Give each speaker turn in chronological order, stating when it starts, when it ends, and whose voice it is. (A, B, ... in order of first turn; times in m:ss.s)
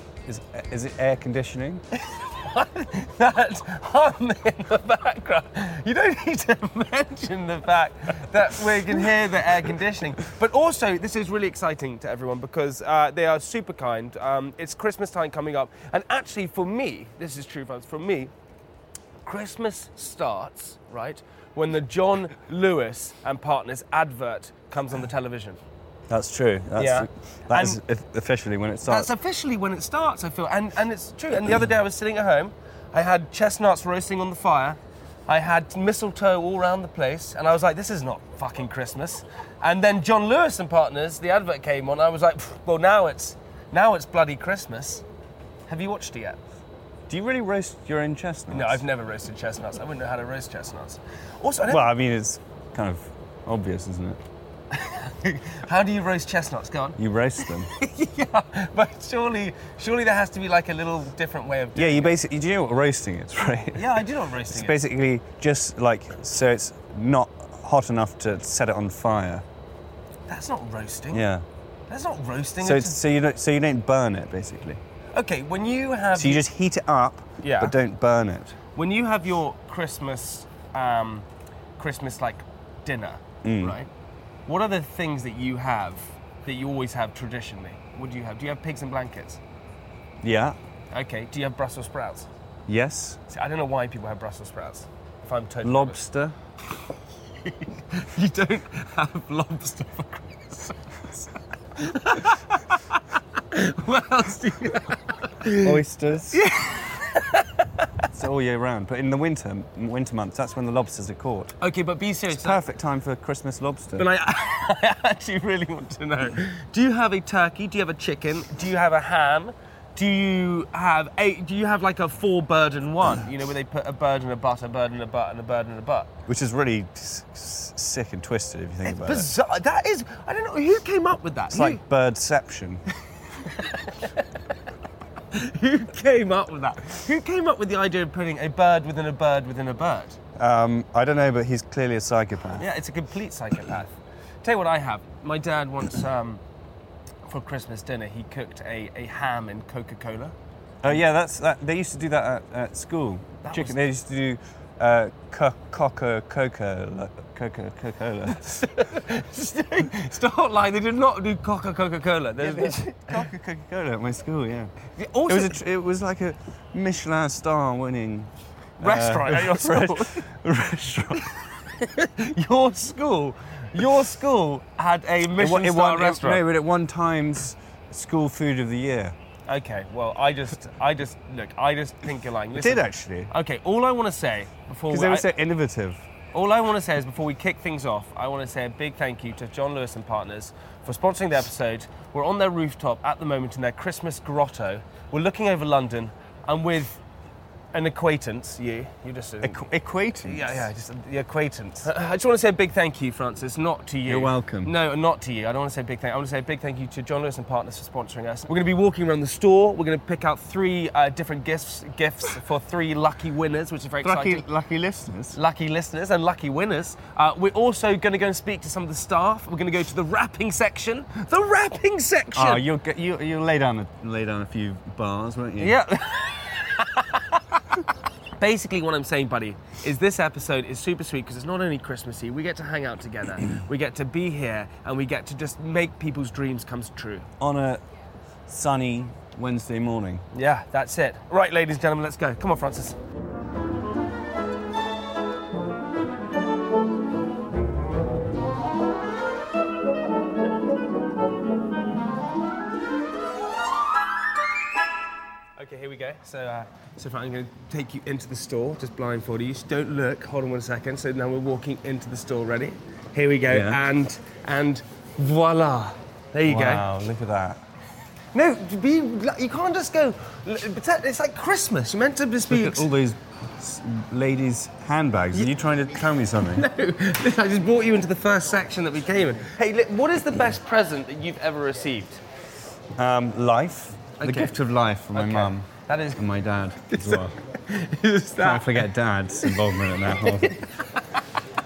0:00.2-0:01.8 A
0:02.0-0:18.3 B
0:19.2-0:25.6 B
0:26.1-0:29.1 A
0:26.8-0:27.8 B
0:28.9-0:45.0 B
0:45.7-0:46.4 B
0:47.1-0:48.8 A
0:48.5-0:51.9 B
0:51.7-0:54.2 A
0:54.7-1:02.2 B
0:57.0-0:57.7 A
1:01.8-1:09.4 A
1:03.8-1:04.8 B
1:10.3-1:11.3 B
1:11.1-1:11.4 A
1:11.9-1:13.0 B
1:12.6-1:14.8 A
1:15.1-1:16.4 B
1:16.1-1:18.6 A
1:17.4-1:17.8 B
1:18.8-1:21.2 B
1:21.8-1:23.9 B
1:23.4-1:23.8 A
1:24.5-1:29.4 B
1:30.2-1:30.6 A
1:30.9-1:32.3 B
1:32.7-1:33.2 A
1:33.3-1:36.0 B
1:35.6-1:36.4 A
1:37.4-1:40.8 B
1:41.8-1:42.8 B
1:43.5-1:45.8 B
1:45.6-1:46.4 A
1:46.3-1:47.6 B
1:48.1-1:51.6 A
1:51.6-1:52.6 B
1:52.3-1:54.1 A
1:54.0-2:06.1 B
2:06.3-2:09.3 A
2:08.8-2:11.8 B
2:11.5-2:12.8 A
2:13.4-2:13.9 B
2:15.3-2:20.2 B
2:20.4-2:22.6 A
2:22.6-2:23.9 B
2:24.4-2:26.4 B
2:27.2-2:30.3 B
2:30.8-2:38.6 A
2:33.4-2:33.8 B
2:38.4-2:43.2 B
2:42.4-2:44.7 A
2:45.0-2:45.6 B
2:45.2-2:51.3 A
2:48.8-2:50.2 B
2:51.8-2:56.4 B
2:55.4-2:59.2 A
2:59.5-3:05.3 B
3:02.5-3:03.3 A
3:04.9-3:06.0 A
3:06.3-3:17.0 B
3:17.7-3:19.7 B
3:19.4-3:20.7 A
3:20.2-3:34.4 B
3:24.1-3:24.8 A
3:34.0-3:35.4 A
3:35.3-3:42.6 B
3:42.4-3:45.8 A
3:45.6-3:47.2 B
3:48.4-3:57.3 B
3:57.4-3:57.8 A
3:58.5-4:00.2 A
4:00.3-4:03.0 B
4:15.6-4:26.8 B
4:23.5-4:23.8 A
4:26.5-4:27.6 A
4:28.3-4:32.9 B
4:32.5-4:36.7 A
4:36.4-4:42.2 B
4:43.0-4:47.4 A
4:44.2-4:44.5 B
4:45.1-4:46.2 B
4:46.9-4:48.9 B
4:48.4-4:50.6 A
4:50.2-4:50.8 B